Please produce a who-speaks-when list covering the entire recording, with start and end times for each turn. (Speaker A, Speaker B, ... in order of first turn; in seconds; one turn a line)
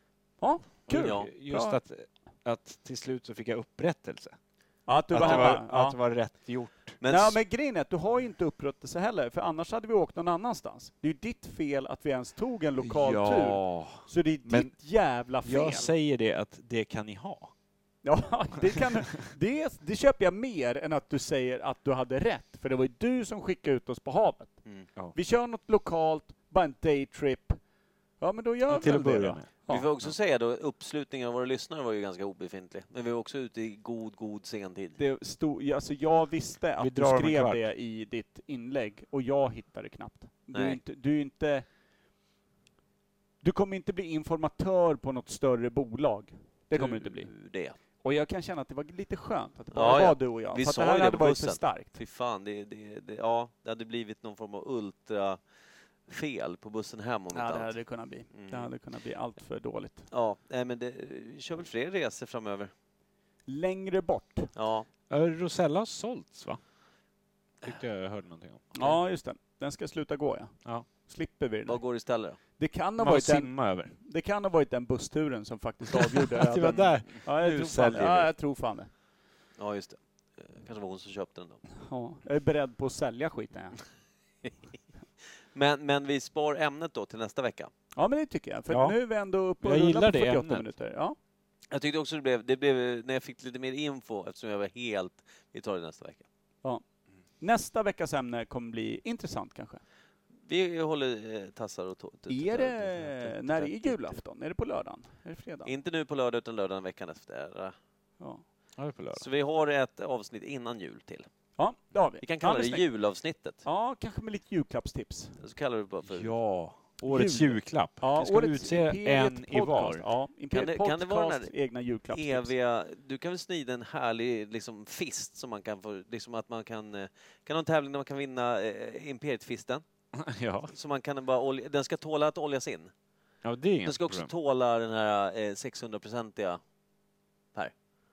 Speaker A: 0.4-1.8
Speaker B: 0.9-4.4
Speaker C: 1.0-1.3
Speaker A: 4.9-6.0
Speaker B: 5.1-7.0
Speaker C: 5.2-5.6
Speaker C: 7.0-7.4
Speaker A: 7.0-15.9
Speaker B: 12.8-14.8
Speaker B: 15.3-17.5
Speaker A: 18.0-24.6
Speaker A: 25.1-27.6
Speaker A: 28.2-29.9
Speaker B: 28.7-29.5
Speaker C: 29.7-35.0
Speaker A: 35.0-41.7
Speaker B: 36.8-37.6
Speaker C: 40.5-40.8
Speaker A: 43.4-47.3
Speaker C: 46.7-47.8
Speaker A: 48.0-52.0
Speaker C: 49.7-55.4
Speaker C: 56.1-57.8
Speaker A: 57.3-60.1
Speaker C: 58.3-58.7
Speaker C: 60.1-62.7
Speaker A: 63.5-64.5
Speaker C: 64.5-64.9
Speaker B: 65.1-66.6
Speaker B: 67.6-68.6
Speaker A: 68.8-78.9
Speaker C: 71.7-72.4
Speaker B: 73.0-73.9
Speaker B: 75.9-78.3
Speaker C: 79.6-81.6
Speaker A: 81.9-83.8
Speaker C: 85.5-87.7
Speaker A: 88.0-91.2
Speaker B: 88.7-89.0
Speaker B: 89.6-90.7
Speaker C: 91.7-96.2
Speaker A: 97.4-99.8
Speaker C: 100.5-104.2
Speaker A: 102.3-105.7
Speaker C: 105.7-107.8
Speaker B: 108.8-109.3
Speaker C: 109.2-111.3
Speaker A: 111.6-112.9
Speaker C: 112.2-113.6
Speaker A: 113.6-115.4
Speaker C: 115.4-116.3
Speaker B: 116.1-120.0
Speaker A: 117.0-122.5
Speaker C: 120.5-121.5
Speaker C: 122.1-129.8
Speaker B: 130.2-130.7
Speaker C: 130.7-132.9
Speaker B: 133.4-134.3
Speaker C: 133.8-136.6